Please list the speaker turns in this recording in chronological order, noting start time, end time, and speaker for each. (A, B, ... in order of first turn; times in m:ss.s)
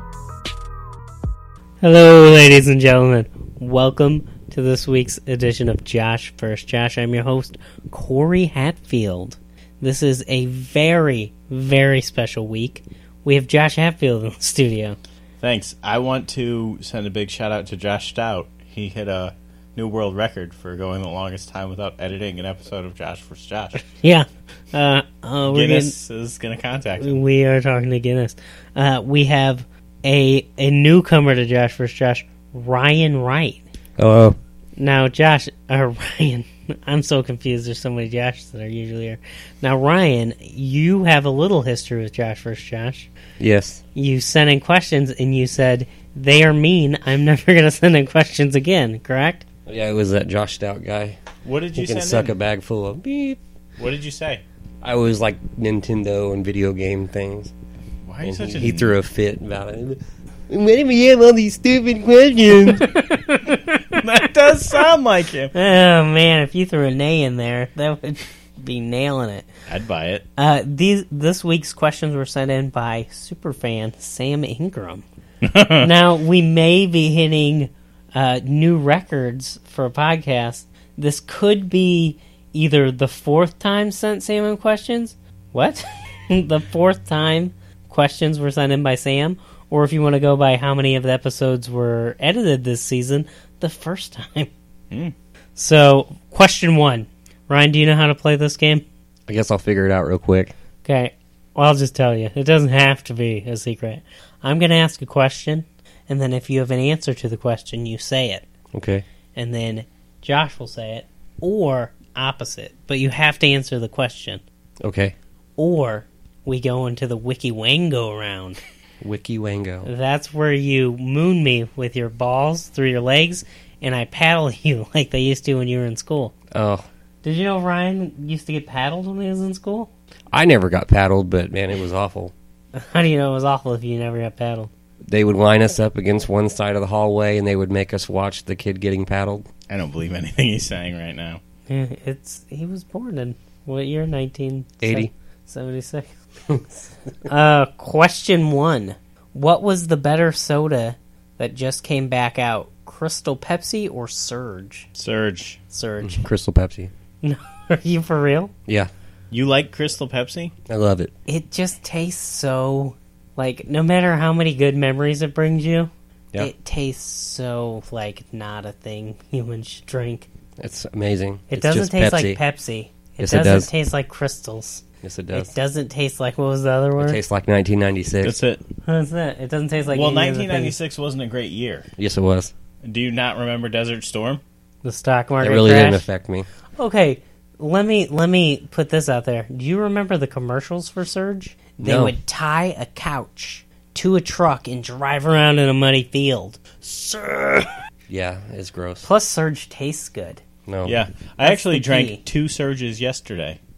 0:01.8-0:15.0 A
0:15.4-0:23.8 B
0:24.0-0:25.9 A
0:25.5-0:27.2 B
0:27.0-0:33.6 A
0:34.0-0:34.4 C
0:34.8-0:43.1 A
0:43.4-0:43.8 C
0:43.9-0:49.4 A
0:49.7-0:51.2 C
0:51.4-0:52.3 B
0:51.7-0:53.4 C
0:53.8-0:54.4 B
0:54.8-0:57.5 C
0:58.0-0:58.9 B
0:58.2-1:02.9 C
1:02.8-1:04.2 A
1:04.0-1:05.5 B
1:05.5-1:09.5 A
1:09.7-1:10.2 B
1:10.4-1:15.0 A
1:15.4-1:15.9 B
1:15.8-1:34.5 A
1:35.6-1:38.8 A
1:39.3-1:40.5 C
1:40.8-1:48.4 A
1:48.7-1:49.0 C
1:49.4-1:54.4 A
1:54.8-1:55.1 C
1:55.6-1:58.6 A
1:59.0-1:59.9 C
1:59.8-2:06.3 A
2:06.5-2:06.8 C
2:07.2-2:09.9 A
2:10.3-2:12.3 C
2:12.7-2:14.7 A
2:15.0-2:19.5 C
2:19.7-2:21.4 B
2:21.7-2:26.1 A
2:24.8-2:25.1 C
2:27.2-2:34.9 A
2:34.9-2:35.6 B
2:35.7-2:36.2 A
2:36.0-2:36.9 C
2:37.2-2:38.5 A
2:39.3-2:40.5 B
2:40.7-2:41.1 C
2:41.3-2:50.3 A
2:50.6-2:52.4 C
2:51.5-2:57.2 A
2:53.2-2:53.7 C
2:55.0-2:55.6 C
2:57.0-2:58.4 C
2:58.2-2:58.6 B
2:58.8-3:00.8 A
2:59.9-3:01.9 B
3:02.0-3:02.5 C
3:02.8-3:04.4 B
3:04.8-3:06.1 A
3:05.4-3:06.5 C
3:06.8-3:17.7 A
3:11.8-3:12.1 C
3:18.1-3:19.1 C
3:19.0-3:20.4 A
3:20.7-3:21.0 C
3:20.8-3:23.6 B
3:21.4-3:22.2 A